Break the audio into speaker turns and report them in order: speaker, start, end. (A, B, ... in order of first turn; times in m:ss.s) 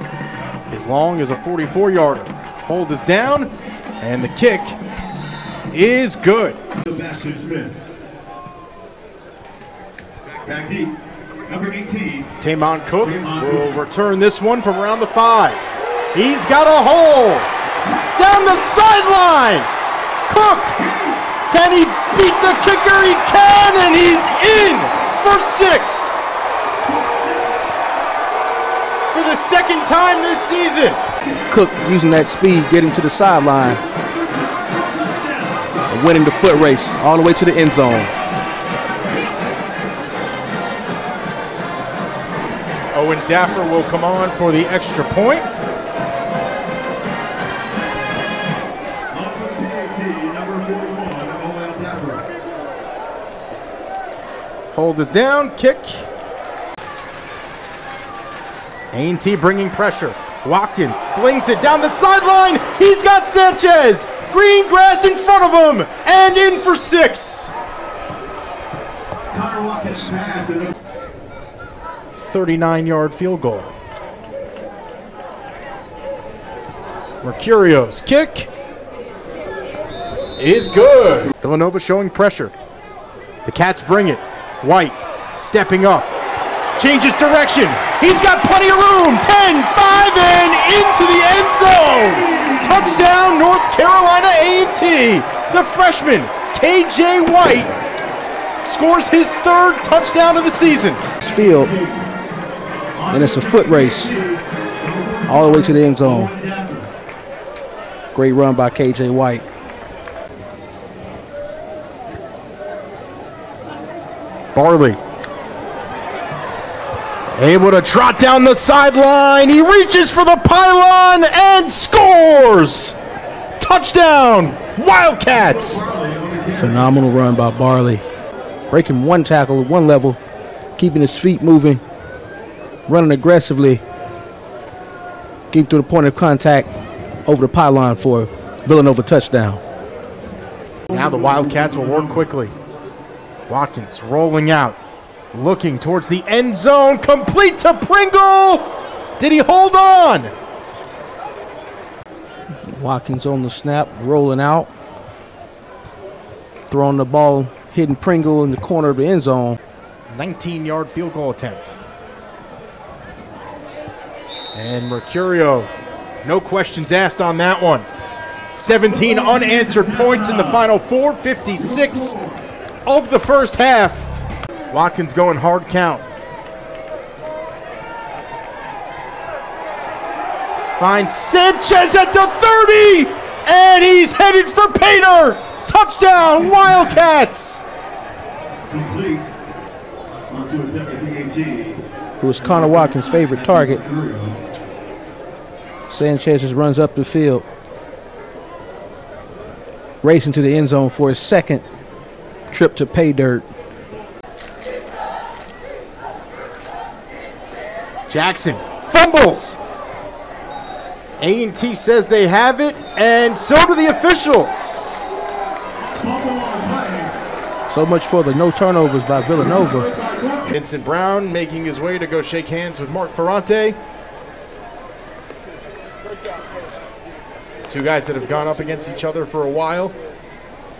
0:00.7-0:04.8 A
0:05.7-0:06.6 A
0:06.9-0:07.8 B
0:10.4-0:12.3 B
0:12.4-0:15.6 A
0:13.0-0:13.7 B
0:16.1-0:17.5 A
0:18.1-0:19.7 A
0:20.3-0:20.8 A
0:21.5-0:26.2 A
0:29.1-0:31.0 A
0:31.5-0:33.8 C
0:35.9-0:38.1 C
0:42.9-0:45.5 A
0:49.1-0:52.2 B
0:54.7-0:56.0 A
0:58.9-1:07.5 A
1:09.3-1:10.7 B
1:12.1-1:13.7 A
1:17.2-1:18.5 A
1:20.4-1:22.5 A
1:23.4-1:26.1 A
1:26.8-1:37.7 A
1:38.6-1:41.0 A
1:41.2-1:41.7 C
1:41.6-1:41.9 B
1:43.0-1:46.9 B
1:43.1-1:44.1 C
1:45.3-1:46.3 C
1:48.1-1:49.4 C
1:54.5-1:55.0 A
1:57.3-2:03.0 A
2:03.6-2:05.8 A
2:05.5-2:06.9 B
2:06.5-2:08.0 C
2:08.7-2:10.2 C
2:10.8-2:11.8 C
2:12.9-2:13.8 C
2:15.5-2:16.7 C
2:17.2-2:19.6 C
2:20.9-2:22.5 A
2:23.5-2:24.8 A
2:25.3-2:30.3 A
2:32.7-2:34.7 C
2:36.7-2:39.6 C
2:40.1-2:41.7 A
2:44.5-2:45.7 A
2:46.2-2:47.8 A
2:48.6-2:52.2 A
2:49.0-2:50.6 B
2:51.8-2:52.3 B
2:52.8-2:54.1 A
2:54.7-2:56.0 A
3:00.8-3:07.6 A
3:08.7-3:09.3 B
3:10.3-3:11.8 B
3:12.2-3:13.8 C
3:12.4-3:14.4 B
3:15.9-3:17.4 C
3:20.0-3:21.6 C
3:22.5-3:23.4 C
3:28.1-3:29.6 A
3:31.2-3:34.8 A
3:35.8-3:37.1 B
3:37.7-3:39.9 C
3:40.4-3:43.8 A
3:47.7-3:49.9 A